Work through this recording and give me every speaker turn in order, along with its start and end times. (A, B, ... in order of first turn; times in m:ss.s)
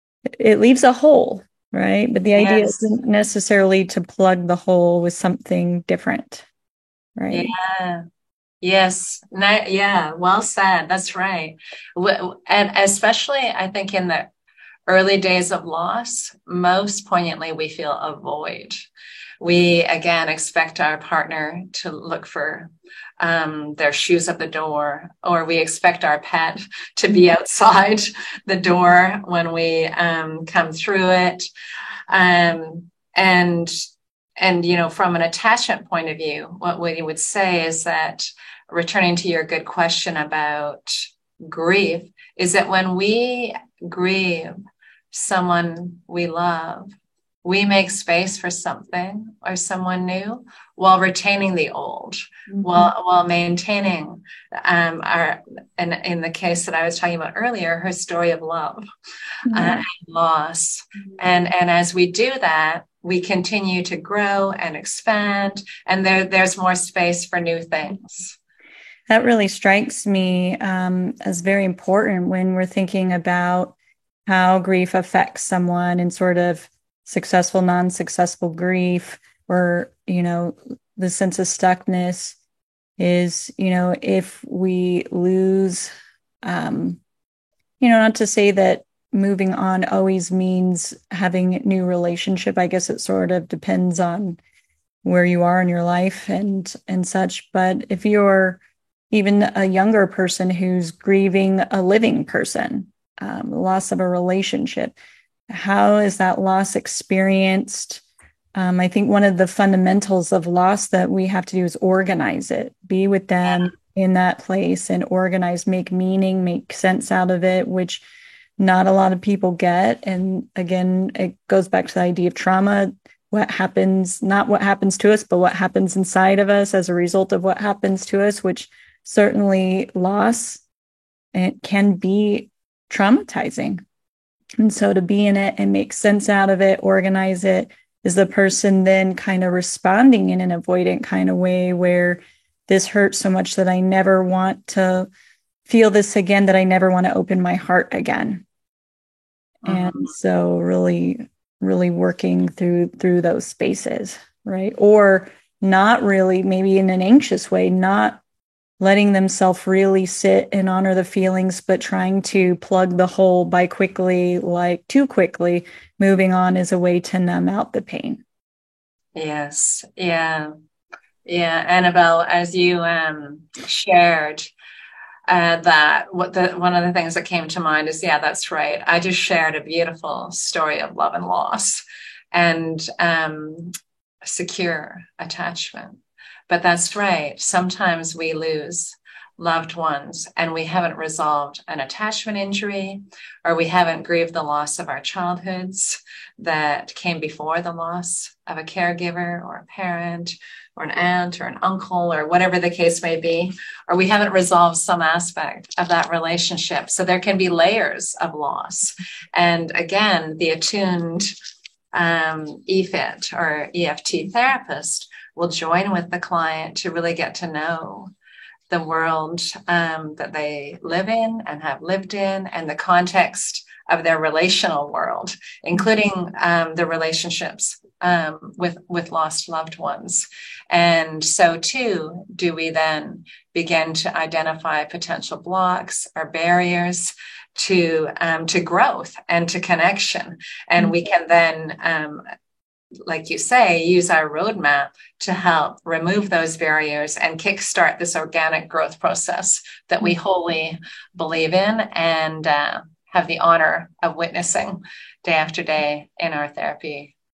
0:00.4-0:06.4 A
0:02.3-0:02.9 B
0:07.2-0:07.5 A
0:07.3-0:08.0 B
0:08.6-0:14.3 B
0:14.9-0:18.8 B
0:19.4-0:31.4 B
0:32.1-0:33.7 B
0:34.4-0:44.5 B
0:45.1-0:58.8 B
0:52.5-0:52.9 A
0:59.5-0:59.8 A
0:59.5-1:08.4 B
1:09.1-1:13.7 A
1:14.3-1:22.4 A
1:23.0-1:25.9 A
1:26.4-1:27.0 A
1:27.8-1:34.4 A
1:35.0-1:38.6 A
1:39.1-1:44.9 A
1:45.5-1:48.0 A
1:48.5-1:58.0 A
1:58.6-2:10.6 A
2:11.3-2:13.8 A
2:14.6-2:25.1 A
2:25.6-2:28.4 A
2:29.6-2:30.1 B
2:29.6-2:38.2 A
2:38.8-2:48.2 A
2:49.1-2:50.5 B
2:51.2-2:54.5 B
2:55.3-3:31.3 B
3:31.9-3:38.1 B
3:38.7-4:02.2 B
4:03.1-4:17.1 B